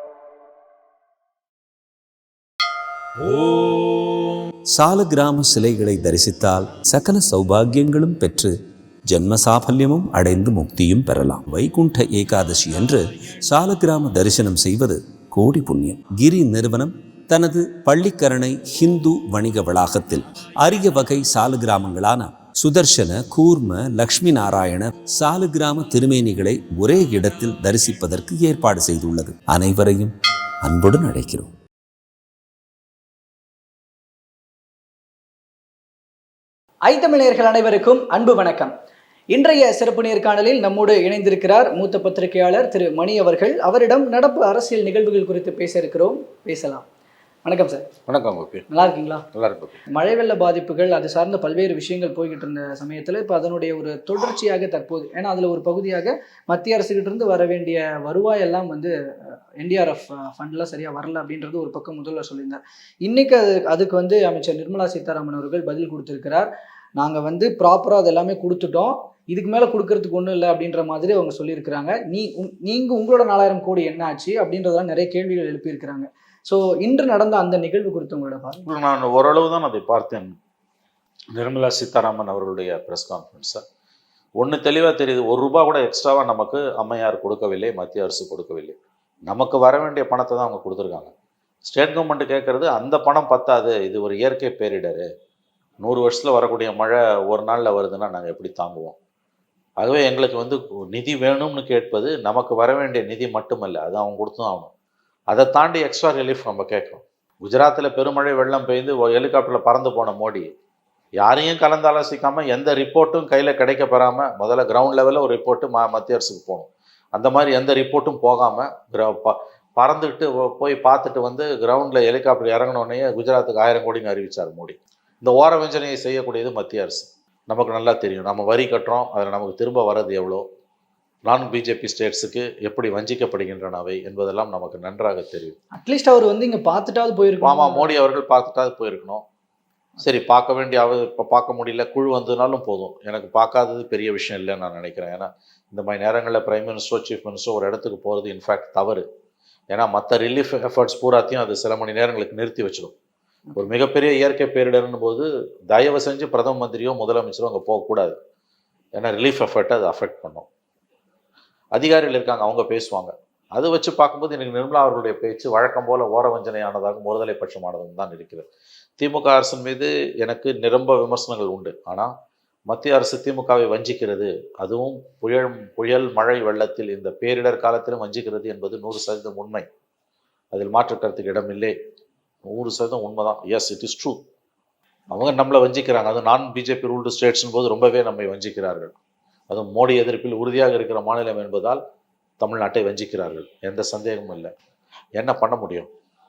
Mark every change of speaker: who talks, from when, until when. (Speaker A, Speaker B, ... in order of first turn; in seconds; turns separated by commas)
Speaker A: 4.7-8.5, Speaker A: 9.1-30.1, Speaker A: 30.6-31.5, Speaker B: 36.9-38.7, Speaker B: 39.3-46.9, Speaker B: 47.5-47.9, Speaker C: 48.1-48.7, Speaker B: 48.7-49.2, Speaker C: 49.3-49.8, Speaker B: 49.9-78.7, Speaker C: 78.6-80.3, Speaker C: 81.3-83.6, Speaker C: 84.4-88.8, Speaker C: 89.3-91.1, Speaker C: 91.6-95.0, Speaker C: 95.8-99.0, Speaker C: 99.8-104.7, Speaker C: 105.3-110.5, Speaker C: 111.2-130.4, Speaker C: 131.2-135.6, Speaker B: 135.8-138.0, Speaker C: 137.4-139.2, Speaker C: 140.0-149.0, Speaker C: 149.7-152.9, Speaker C: 153.6-158.2, Speaker C: 159.0-160.5, Speaker C: 161.7-168.5, Speaker C: 169.0-172.1, Speaker C: 172.7-179.7, Speaker C: 180.5-181.8, Speaker C: 182.4-184.2, Speaker C: 185.1-188.9, Speaker C: 189.5-191.8, Speaker C: 192.4-194.5, Speaker C: 195.2-195.9